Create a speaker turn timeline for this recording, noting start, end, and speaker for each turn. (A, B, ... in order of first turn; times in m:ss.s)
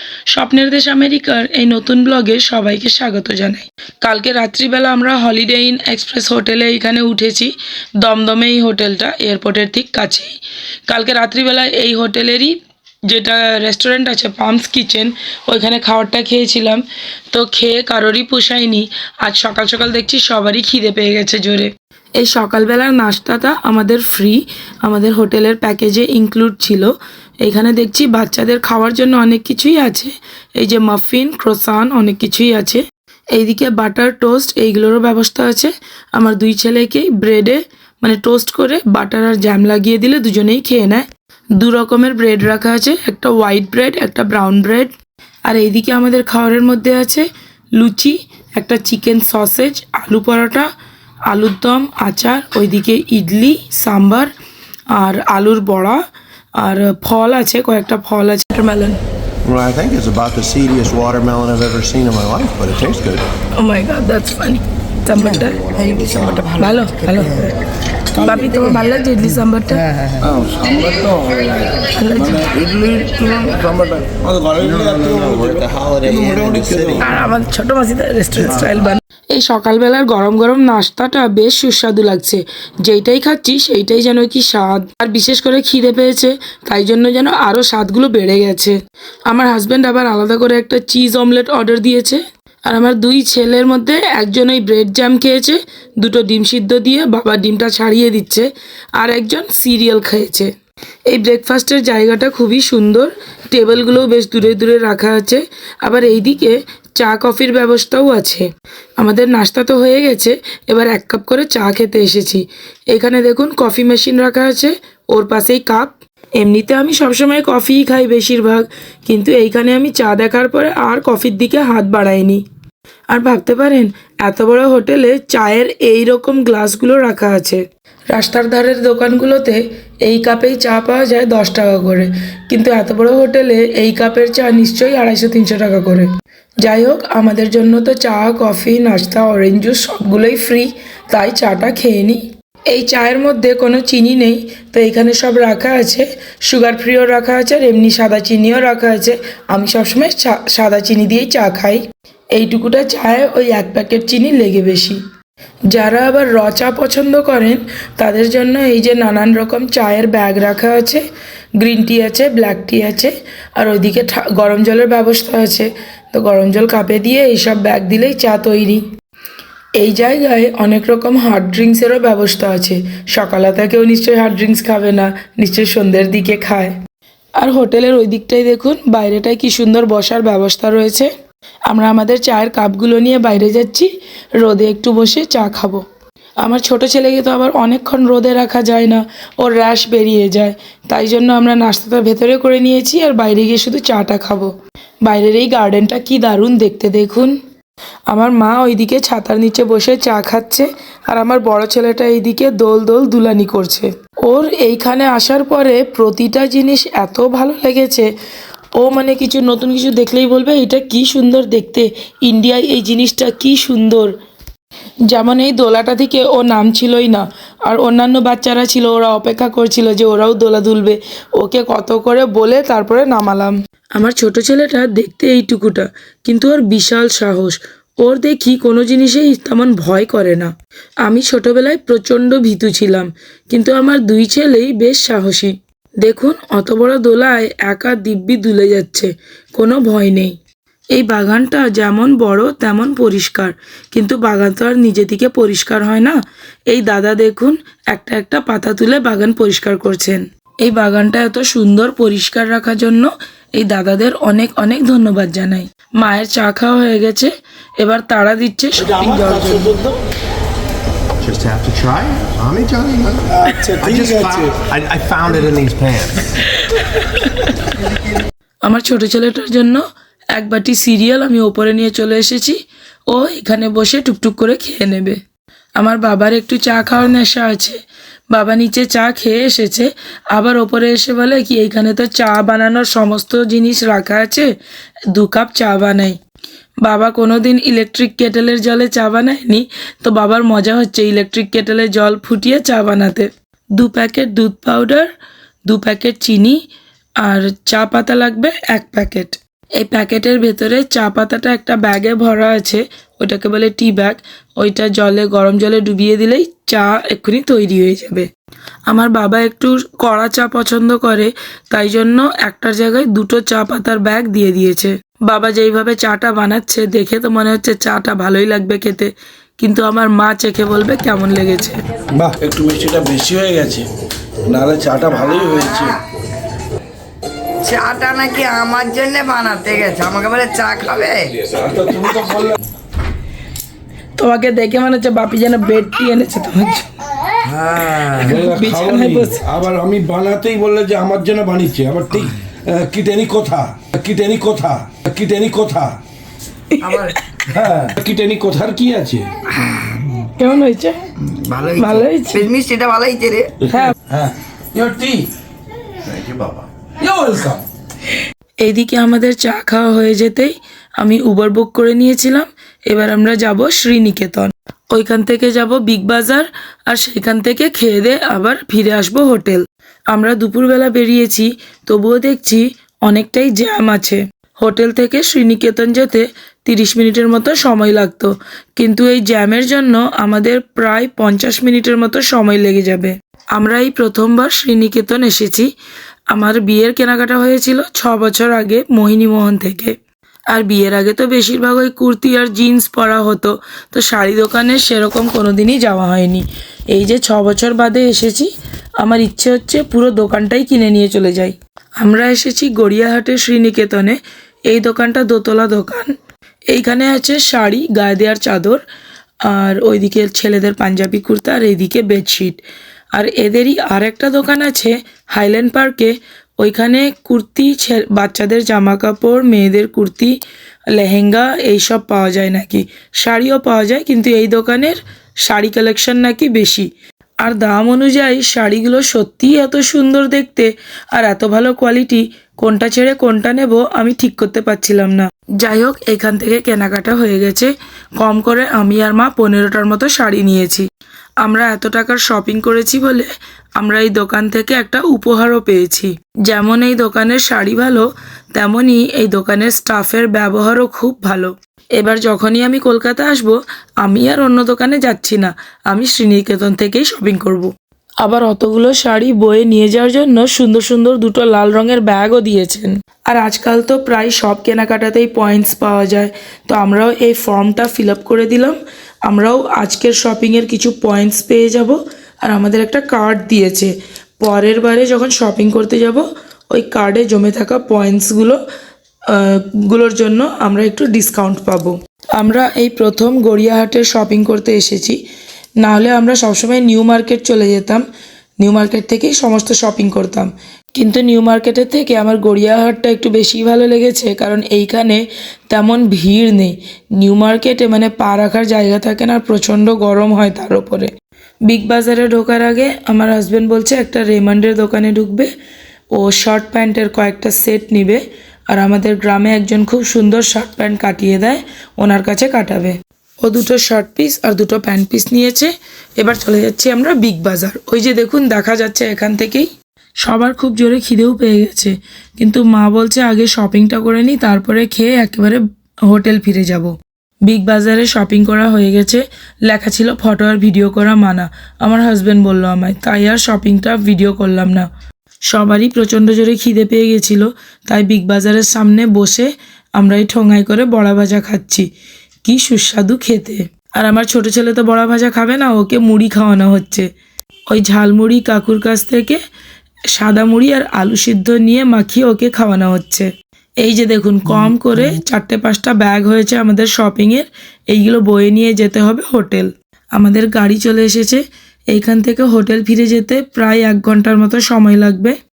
0:00.3-0:10.3 A
0:10.9-0:12.6 A
0:13.1-0:41.0 A
0:41.6-0:44.9 A
0:45.4-0:50.7 A
0:51.3-0:54.3 A
0:54.9-0:56.0 A
0:56.6-0:59.0 A
0:59.4-1:03.3 B
1:03.6-1:05.7 A
1:05.7-1:07.2 C
1:05.8-1:06.5 B
1:06.6-1:07.6 A
1:08.1-1:09.8 A
1:08.2-1:08.5 D
1:09.9-1:10.3 C
1:10.2-1:17.1 D
1:11.9-1:12.5 A
1:12.7-1:13.6 C
1:14.6-1:17.1 B
1:17.0-1:28.8 A
1:29.3-1:40.5 A
1:41.1-2:02.4 A
2:03.1-2:31.8 A
2:32.3-2:35.0 A
2:35.7-2:41.0 A
2:41.6-2:48.8 A
2:49.8-2:56.8 A
2:57.4-3:01.1 A
3:01.7-3:05.8 A
3:06.4-3:14.5 A
3:15.0-3:17.4 A
3:18.1-3:28.1 A
3:28.8-3:34.1 A
3:35.1-3:50.5 A
3:51.0-4:00.4 A
4:00.9-4:06.2 A
4:06.7-4:19.8 A
4:18.8-4:20.0 D
4:21.2-4:26.4 B
4:23.3-4:24.5 D
4:26.4-4:27.5 A
4:28.6-4:35.2 A
4:35.8-4:37.8 A
4:38.3-4:44.5 A
4:45.1-4:46.2 A
4:46.8-4:55.1 A
4:55.7-4:56.6 A
4:57.2-5:08.3 A
5:08.9-5:21.8 A
5:22.2-5:23.9 D
5:24.5-5:26.0 D
5:27.6-5:31.3 C
5:31.5-5:32.6 D
5:34.2-5:36.9 A
5:37.9-5:39.4 A
5:38.1-5:46.0 D
5:46.7-5:47.4 A
5:46.8-5:47.3 C
5:47.5-5:49.3 D
5:49.5-5:50.2 C
5:50.2-5:51.0 A
5:51.2-5:53.5 C
5:51.8-5:52.5 A
5:53.6-5:55.3 D
5:53.7-5:53.9 A
5:56.3-5:57.6 D
5:58.6-6:25.7 A
6:26.3-6:30.0 A
6:30.5-6:44.2 A
6:44.7-6:46.1 A
6:46.7-6:48.8 A
6:49.4-6:52.6 A
6:53.1-7:00.4 A
7:00.9-7:06.9 A
7:07.4-7:20.8 A
7:21.4-7:58.6 A
7:59.3-8:05.2 A
8:05.8-8:08.0 A
8:08.6-8:21.1 A
8:21.7-8:25.5 A
8:26.1-8:39.7 A
8:40.2-8:46.9 A
8:47.4-8:54.9 A
8:55.5-9:01.9 A
9:02.4-9:07.1 A
9:07.7-9:09.4 A
9:10.1-9:13.3 A
9:13.8-9:25.4 A